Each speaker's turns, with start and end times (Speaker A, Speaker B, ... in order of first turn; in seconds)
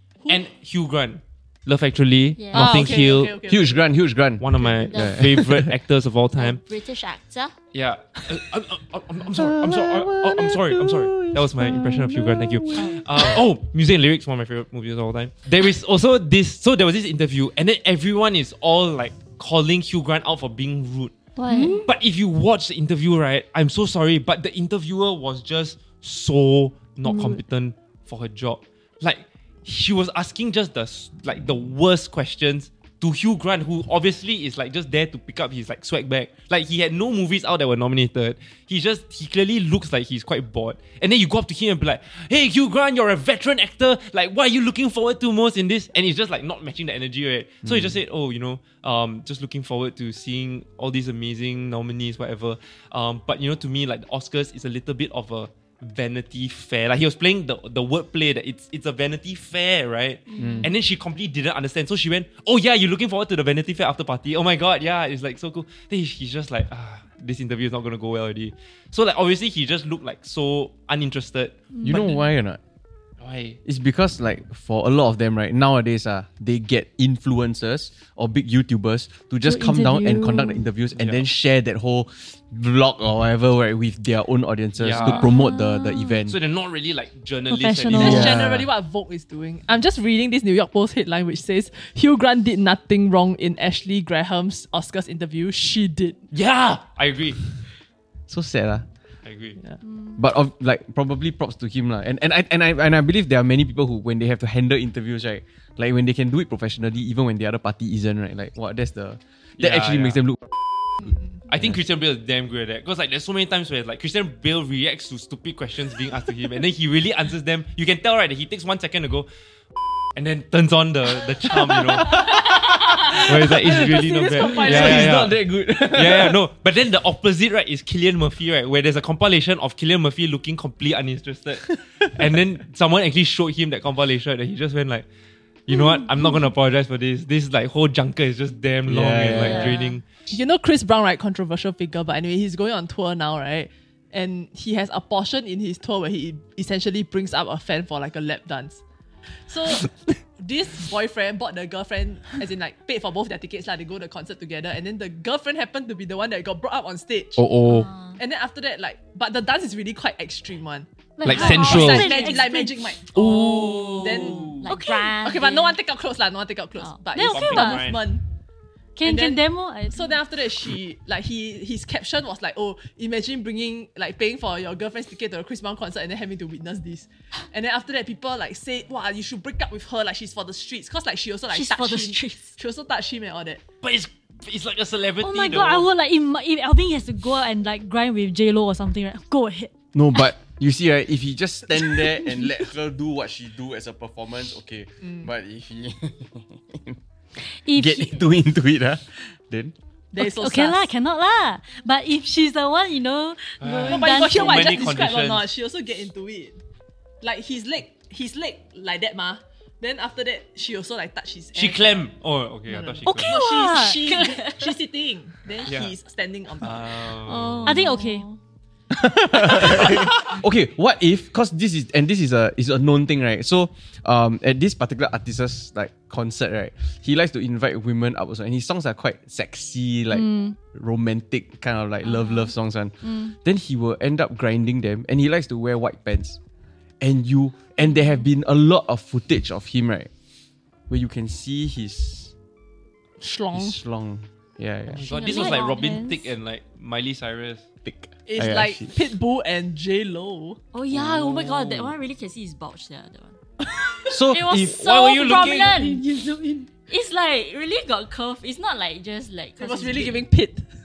Speaker A: 0.3-3.3, 4.4-6.6, 7.7-21.1, 21.9-72.1, 73.2-73.6, 84.8-85.4, 86.3-88.3, 96.3-97.4, 99.2-99.6, 109.6-110.2, 111.5-119.3, 120.2-122.3, 123.0-125.4, 125.9-135.1, 135.7-140.0, 161.2-162.2, 163.1-164.7, 167.2-168.0, 183.8-185.9, 203.6-205.5, 211.5-213.4, 215.6-215.9, 216.6-217.8, 244.9-247.6, 250.9-251.9, 254.8-255.7
Speaker B: 2.4-2.8, 4.9-5.2, 6.3-7.5, 21.4-21.7, 60.3-60.7, 139.3-140.0, 157.7-158.2, 161.3-161.9, 163.2-165.8, 181.5-182.5, 214.0-214.6, 217.2-218.4, 245.1-245.9, 250.7-253.4, 254.2-256.0, 256.9-260.2
Speaker C: 2.5-3.9, 87.9-96.2, 111.0-111.4, 122.2-125.2, 140.3-148.8, 149.3-157.4, 158.2-168.2, 169.0-183.6, 195.0-195.3, 200.1-200.9, 203.9-206.6, 207.2-211.9, 212.7-217.1, 243.2-243.8, 248.3-250.6, 259.6-260.7
Speaker D: 3.5-5.7, 9.2-13.3, 47.6-48.0, 60.4-60.7, 71.8-72.6, 73.6-86.4, 87.9-88.7, 98.3-98.8, 100.2-110.5, 111.0-111.8, 121.5-126.4, 138.9-139.8, 157.4-157.9, 189.9-197.0, 197.7-199.7, 218.9-236.4, 237.0-240.1, 240.9-242.3, 243.5-245.0, 247.8-248.9, 254.1-255.0
Speaker E: 21.5-21.9, 27.0-27.4, 71.7-72.3, 79.4-80.7, 84.9-86.2, 87.5-88.3, 99.8-100.2, 161.2-163.0, 164.7-165.1, 167.1-167.9, 168.9-170.2, 185.2-190.3, 197.6-198.2, 200.2-204.8, 213.0-214.2, 217.6-218.2, 230.1-230.6, 233.0-233.3, 245.1-246.3, 255.1-256.7